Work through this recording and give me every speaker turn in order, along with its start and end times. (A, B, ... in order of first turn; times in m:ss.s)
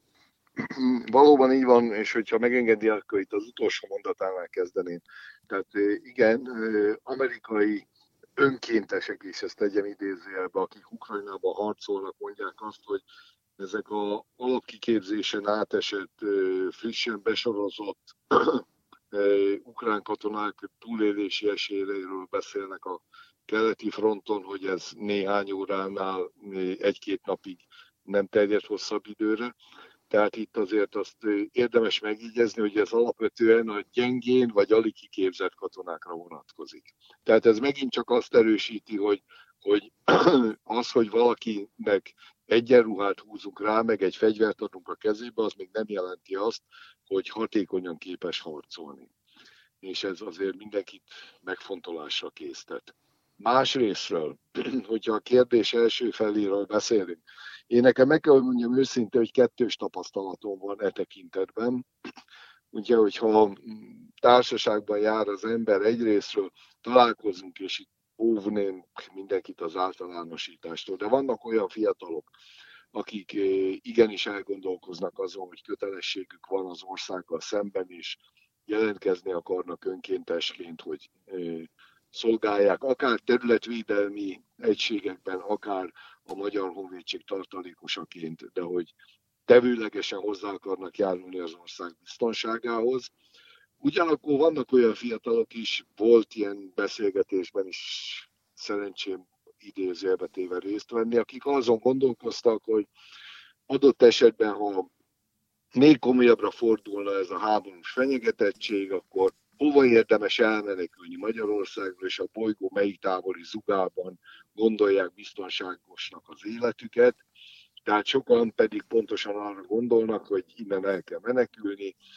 0:00.6-0:07.9 A
0:08.4-0:13.0 A
0:13.6-0:29.5 A
0:30.1-0:49.1 A
0:49.8-1:01.9 A
1:02.7-1:12.3 A
1:12.9-1:28.9 A
1:29.5-1:33.1 A
1:33.8-1:42.9 A
1:43.7-1:44.9 A
1:45.8-1:57.2 A
1:57.9-2:02.0 A